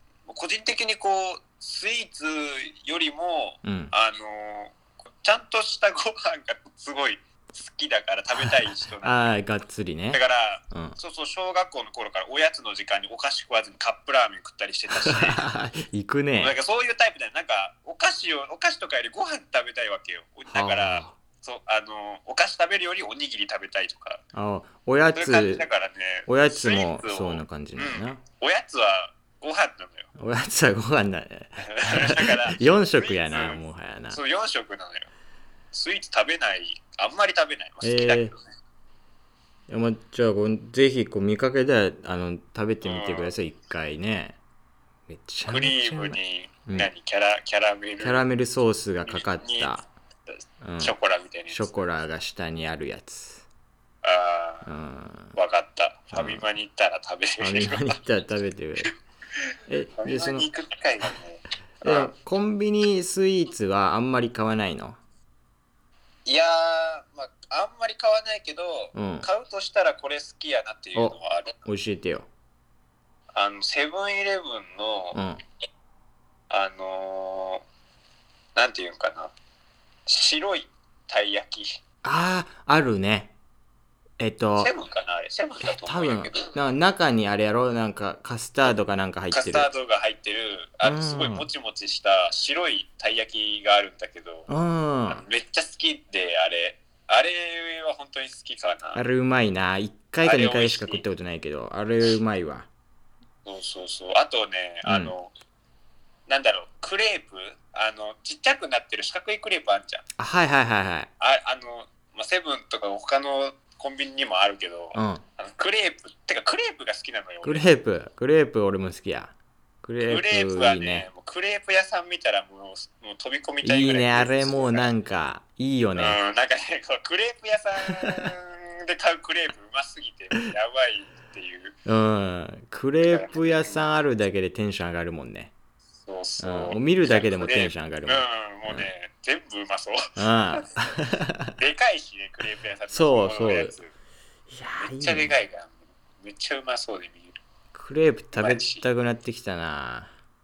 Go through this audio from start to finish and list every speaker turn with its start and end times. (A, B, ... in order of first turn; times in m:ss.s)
0:00.3-0:09.3 A
0:03.6-0:03.9 B
0:09.0-0:10.2 B
0:10.1-0:15.7 A
0:10.7-0:11.0 B
0:15.1-0:16.5 B
0:16.4-0:24.2 A
0:20.5-0:21.2 B
0:24.3-0:25.6 B
0:25.1-0:30.1 A
0:26.3-0:28.2 B
0:30.2-0:34.2 B
0:31.7-0:33.6 A
0:34.1-0:35.1 A
0:35.7-0:38.5 A
0:37.8-0:38.3 B
0:39.7-0:44.4 B
0:42.8-0:43.3 A
0:45.1-0:46.9 B
0:45.5-0:48.2 A
0:48.0-0:49.8 B
0:49.0-0:49.7 A
0:50.6-0:50.9 B
0:50.8-0:51.8 A
0:51.5-0:53.4 B
0:54.0-0:54.7 A
0:54.6-0:55.4 B
0:55.3-0:58.0 A
0:56.1-0:56.4 B
0:57.4-0:58.9 B
0:59.7-1:00.5 B
1:00.0-1:02.1 A
1:01.8-1:05.0 B
1:06.2-1:11.6 A
1:08.9-1:09.3 B
1:11.0-1:12.3 B
1:13.3-1:15.2 A
1:15.1-1:15.4 B
1:16.5-1:17.6 A
1:18.5-1:19.3 A
1:20.0-1:21.7 A
1:22.0-1:23.3 B
1:24.2-1:24.7 B
1:24.6-1:26.6 A
1:25.6-1:29.7 B
1:29.3-1:34.5 A
1:30.8-1:31.4 B
1:34.5-1:35.2 B
1:35.1-1:39.0 A
1:38.9-1:42.7 B
1:40.2-1:41.0 A
1:43.4-1:45.3 A
1:44.8-1:45.1 B
1:46.3-1:50.0 A
1:50.2-1:51.1 B
1:51.2-1:57.6 A
1:54.9-1:55.2 B
1:57.4-2:01.0 B
2:00.0-2:04.9 A
2:03.6-2:06.2 B
2:06.0-2:11.8 A
2:08.0-2:08.3 B
2:11.8-2:15.5 B
2:13.0-2:13.8 A
2:16.0-2:20.6 A
2:16.4-2:18.9 B
2:20.2-2:21.5 B
2:21.6-2:23.9 A
2:22.9-2:23.8 B
2:24.5-2:25.3 B
2:24.8-2:27.4 A
2:27.7-2:30.1 B
2:28.3-2:28.8 A